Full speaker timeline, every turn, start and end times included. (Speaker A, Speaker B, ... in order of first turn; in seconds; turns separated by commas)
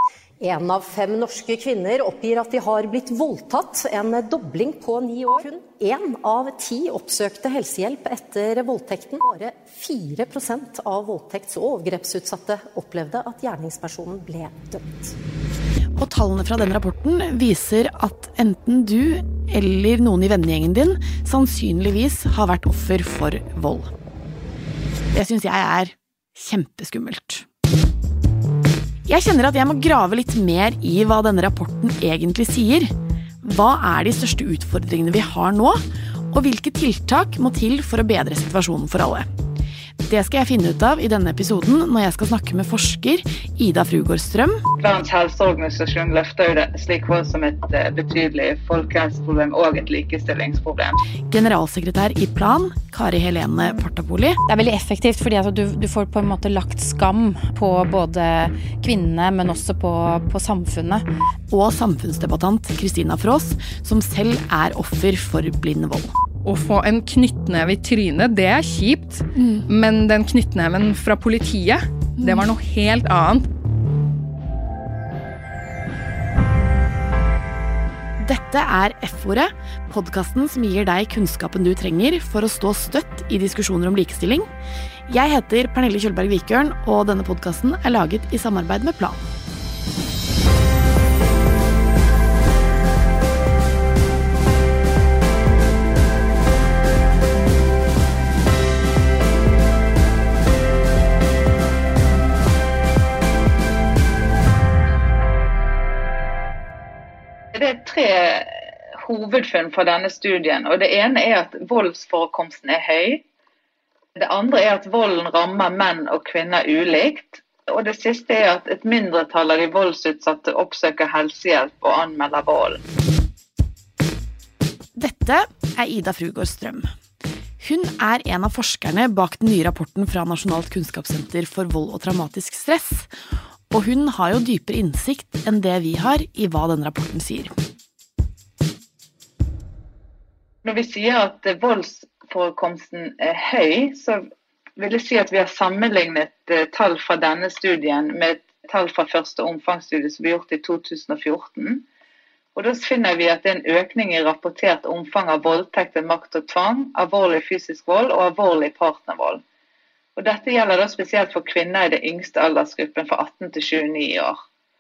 Speaker A: 0.4-15.1, Speaker B: 16.0-23.9, Speaker B: 25.1-27.5, Speaker B: 29.1-39.3, Speaker B: 40.0-44.6, Speaker C: 44.8-51.0, Speaker B: 51.3-54.4, Speaker D: 54.5-61.0, Speaker B: 61.5-66.1, Speaker E: 66.5-73.5, Speaker B: 69.3-69.7, Speaker B: 72.2-72.5, Speaker B: 78.2-84.5, Speaker B: 85.1-89.2, Speaker C: 107.5-113.2, Speaker C: 114.2-122.8, Speaker B: 125.0-126.9, Speaker B: 127.6-133.1, Speaker B: 133.7-137.5, Speaker C: 140.6-144.2, Speaker C: 144.8-151.8, Speaker C: 152.6-159.4, Speaker C: 160.2-164.4